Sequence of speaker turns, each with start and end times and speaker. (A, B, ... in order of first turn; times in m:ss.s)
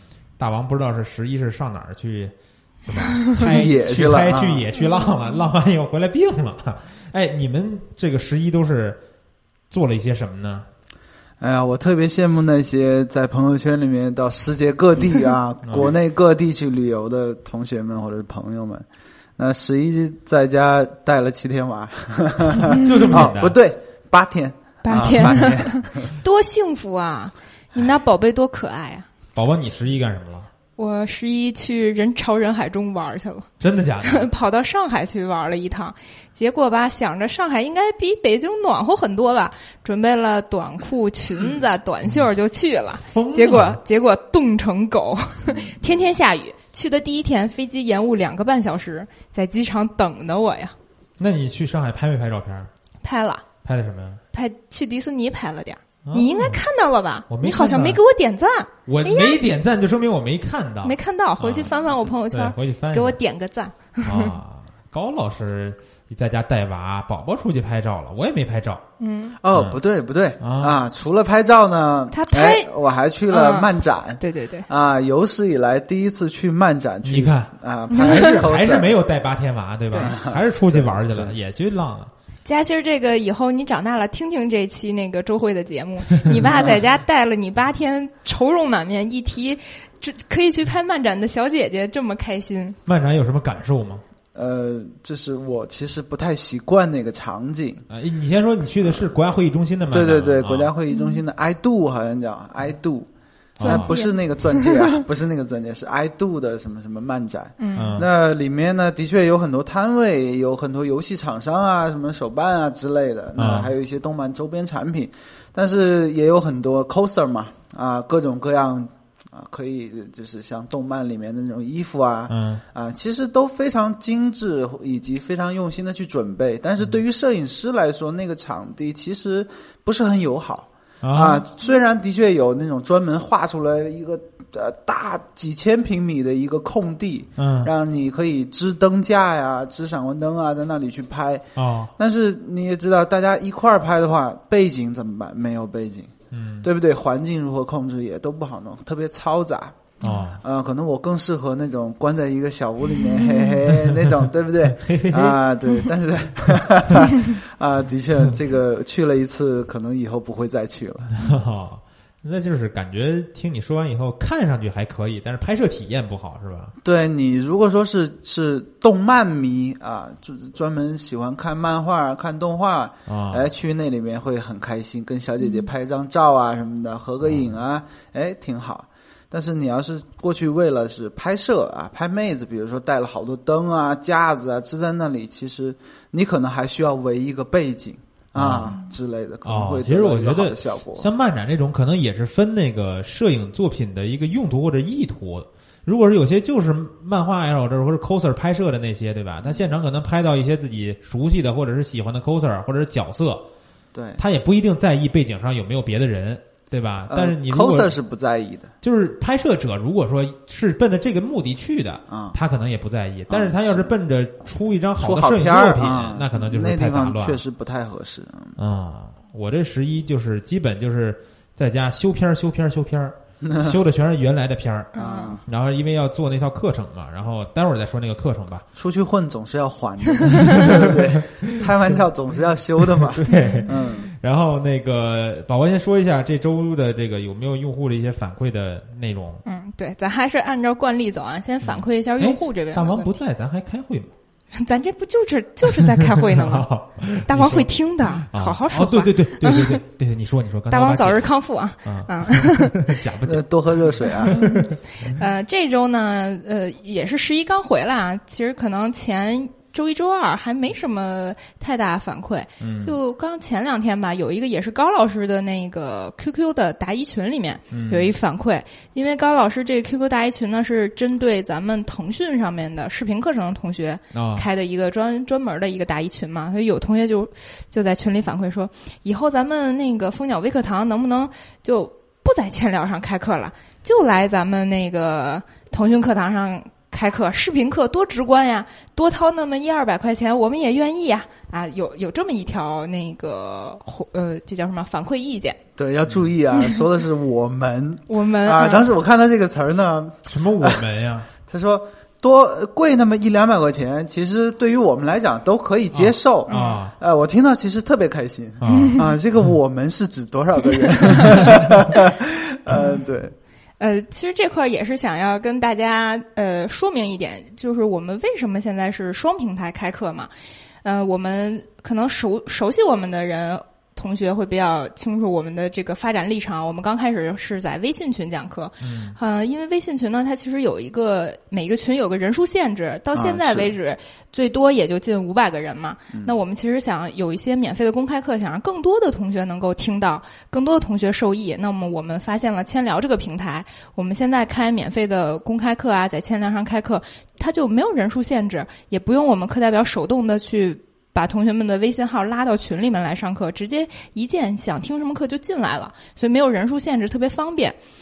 0:00.4-0:02.3 A
0:02.9-0:09.0 A
0:03.4-0:04.7 B
0:04.9-0:05.3 C
0:09.7-0:10.7 A
0:11.4-0:18.8 B
0:15.6-0:16.0 A
0:19.4-0:26.2 B
0:22.6-0:23.2 C
0:22.7-0:23.6 A
0:24.8-0:29.1 C
0:29.4-0:30.5 A
0:30.8-0:33.5 C
0:33.6-0:34.3 A
0:34.0-0:50.8 C
0:43.1-0:43.8 A
0:45.5-0:45.8 B
0:51.2-0:52.7 A
0:53.0-0:53.4 C
0:53.6-0:54.2 A
0:54.3-0:59.4 C
0:56.0-0:56.6 A
0:57.3-0:58.0 A
0:58.9-1:03.2 A
1:00.8-1:04.4 C
1:04.0-1:08.8 A
1:09.0-1:09.4 C
1:09.4-1:18.9 B
1:09.5-1:09.8 A
1:10.4-1:10.8 A
1:12.1-1:12.7 C
1:13.3-1:14.7 C
1:17.0-1:22.1 A
1:17.9-1:18.4 C
1:19.9-1:21.3 B
1:22.4-1:32.8 C
1:26.4-1:26.8 B
1:32.9-1:34.0 A
1:34.4-1:37.9 B
1:37.9-1:40.7 A
1:39.9-1:43.1 B
1:40.9-1:41.2 C
1:43.6-1:43.9 A
1:43.6-2:21.5 B
1:43.6-1:45.0 C
1:47.6-1:47.9 C
1:47.8-1:48.1 A
1:53.4-1:53.7 A
2:02.3-2:02.6 A
2:11.0-2:11.4 A
2:17.4-2:17.7 A
2:21.6-2:21.9 A
2:22.0-2:41.1 B
2:26.3-2:26.7 A
2:30.0-2:30.4 A
2:33.0-2:33.6 C
2:33.7-2:35.4 A
2:41.2-2:46.7 A
2:46.8-3:11.1 B
2:53.1-2:53.5 A
2:55.4-2:55.7 C
3:08.4-3:08.7 A
3:09.4-3:23.4 A
3:23.9-3:24.2 B
3:24.2-3:27.9 A
3:27.1-3:28.7 B
3:28.8-3:37.4 A
3:32.1-3:32.4 B
3:33.3-3:34.0 B
3:35.0-3:38.6 B
3:38.6-3:44.9 A
3:43.4-3:43.8 B
3:44.9-3:45.4 C
3:45.0-3:45.4 B
3:45.5-3:48.7 A
3:48.8-3:54.1 B
3:50.1-3:50.8 C
3:50.3-3:51.6 A
3:52.9-3:59.4 A
3:53.3-3:53.6 C
3:59.4-4:03.2 C
4:01.6-4:04.1 A
4:04.5-4:09.8 C
4:06.0-4:11.3 A
4:10.7-4:12.9 C
4:11.8-4:15.2 A
4:13.3-4:14.4 B
4:14.1-4:55.6 C
4:22.6-4:23.0 A
4:27.7-4:28.1 A
4:34.1-4:34.4 A
4:55.8-5:00.8 B
4:56.5-4:56.8 C
4:58.1-4:58.9 C
5:00.3-5:01.3 A
5:01.4-5:13.3 B
5:06.0-5:06.9 A
5:06.5-5:06.8 C
5:08.6-5:09.0 A
5:08.7-5:09.2 C
5:11.3-5:11.7 A
5:12.7-5:13.0 C
5:13.8-5:20.3 C
5:20.8-5:57.8 C
5:28.8-5:29.2 A
5:33.1-5:33.7 B